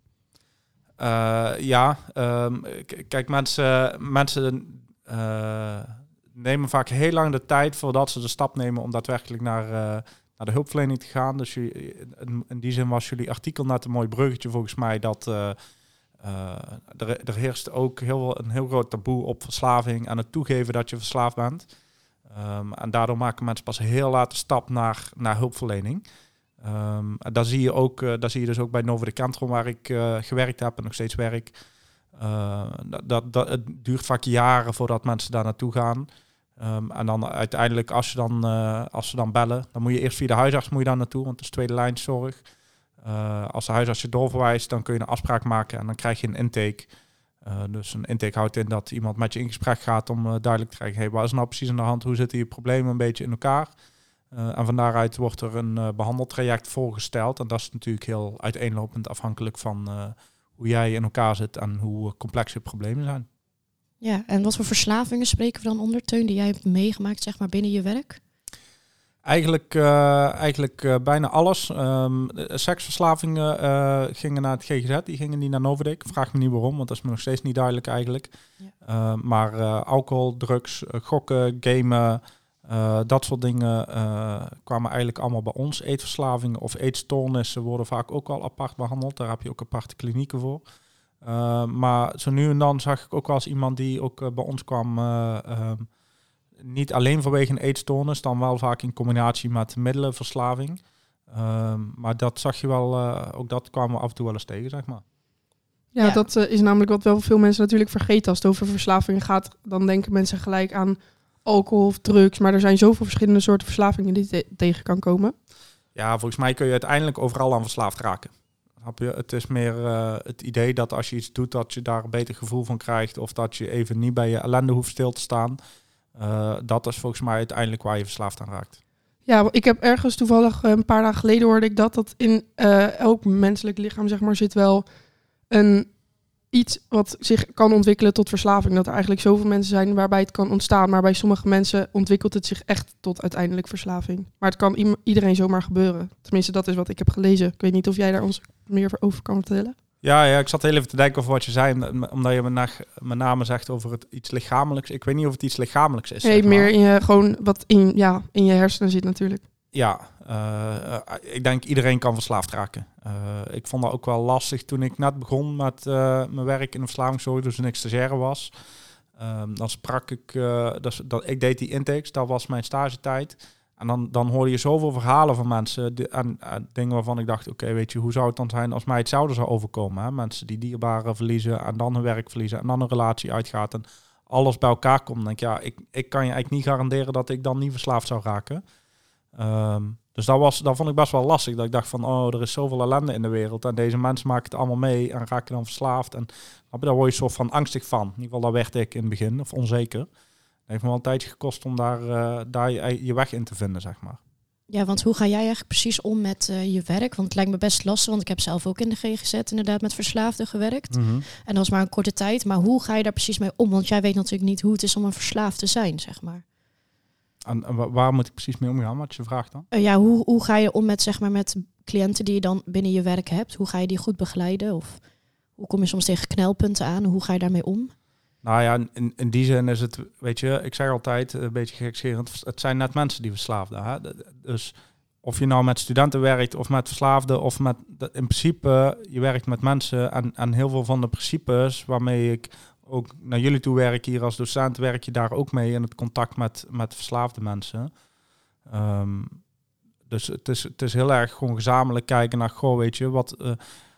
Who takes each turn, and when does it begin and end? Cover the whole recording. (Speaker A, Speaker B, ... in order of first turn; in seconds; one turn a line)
Speaker A: 1.0-15.6
Speaker A: 16.2-21.7
Speaker A: 22.2-26.0
Speaker A: 26.6-31.5
Speaker A: 32.1-42.4
Speaker A: 43.0-46.9
Speaker A: 47.4-53.7
Speaker A: 54.3-63.3
Speaker B: 64.0-68.2
Speaker A: 69.2-78.3
Speaker A: 78.8-90.6
Speaker A: 91.2-95.9
Speaker A: 96.6-105.0
Speaker C: 105.9-115.3
Speaker B: 106.0-106.2
Speaker A: 115.9-125.6
Speaker A: 126.1-128.8
Speaker C: 129.2-134.8
Speaker C: 135.5-135.9
Speaker C: 136.5-149.8
Speaker A: 150.0-156.7
Speaker C: 156.2-159.4
Speaker A: 159.7-168.5
Speaker A: 169.2-188.6
Speaker A: 189.3-200.1
Speaker A: 200.7-204.2
Speaker B: 204.7-216.4
Speaker A: 210.9-211.2
Speaker A: 217.4-219.7
Speaker B: 219.7-225.0
Speaker B: 225.6-227.9
Speaker A: 228.4-247.9
Speaker A: 248.7-249.4
Speaker A: 250.1-253.6